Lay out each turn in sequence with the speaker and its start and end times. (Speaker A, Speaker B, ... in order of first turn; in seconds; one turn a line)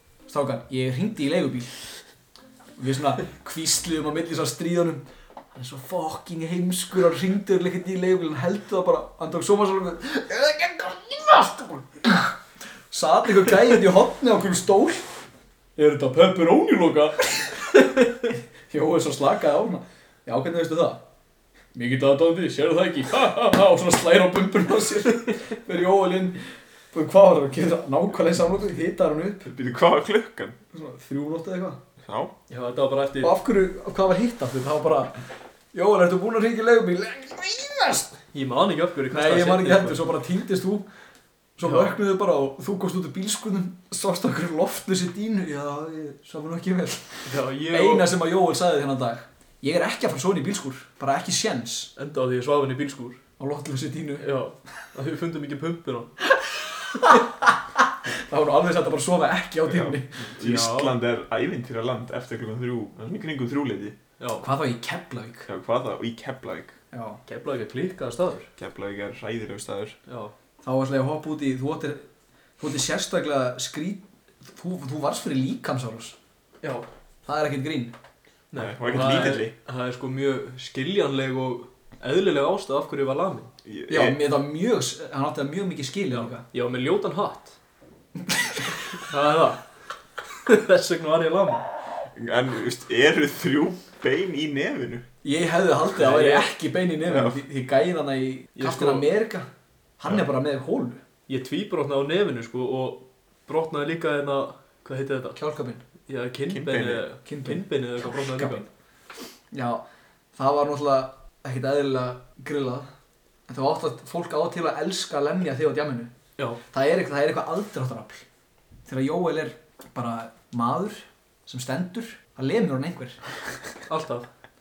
Speaker A: 0.3-1.7
Speaker A: 2.8-12.4
Speaker A: 12.9-17.8
Speaker A: 18.7-21.0
Speaker A: 21.8-29.4
Speaker B: 29.4-30.6
Speaker A: 30.7-31.8
Speaker B: 32.0-32.3
Speaker C: 32.5-33.4
Speaker A: 33.2-35.2
Speaker A: 35.7-38.2
Speaker C: 38.3-40.0
Speaker A: 39.1-40.9
Speaker A: 41.6-51.9
Speaker C: 41.6-42.0
Speaker C: 47.3-48.2
Speaker C: 52.0-53.2
Speaker A: 53.4-54.3
Speaker C: 54.2-56.1
Speaker A: 56.4-57.2
Speaker A: 58.1-60.3
Speaker B: 59.7-64.0
Speaker C: 60.3-61.0
Speaker C: 64.2-64.5
Speaker A: 64.4-65.5
Speaker B: 65.5-66.8
Speaker A: 66.9-67.2
Speaker C: 67.3-68.5
Speaker B: 68.6-70.0
Speaker C: 70.1-70.3
Speaker A: 70.6-72.1
Speaker A: 72.6-76.2
Speaker C: 76.6-76.9
Speaker A: 77.3-78.0
Speaker C: 78.5-83.5
Speaker B: 78.5-79.5
Speaker B: 83.7-84.2
Speaker A: 83.9-86.4
Speaker C: 86.1-87.5
Speaker A: 88.3-88.6
Speaker C: 88.9-89.7
Speaker C: 90.3-91.7
Speaker B: 92.2-95.1
Speaker A: 95.2-101.0
Speaker C: 96.0-96.5
Speaker B: 97.1-97.4
Speaker C: 98.6-99.1
Speaker C: 101.3-105.4
Speaker A: 105.4-105.8
Speaker C: 106.1-108.7
Speaker B: 106.5-107.0
Speaker A: 107.3-108.7
Speaker A: 109.5-109.8
Speaker A: 110.3-112.9
Speaker A: 113.5-116.1
Speaker A: 116.7-118.2
Speaker A: 118.9-123.2
Speaker C: 123.9-124.3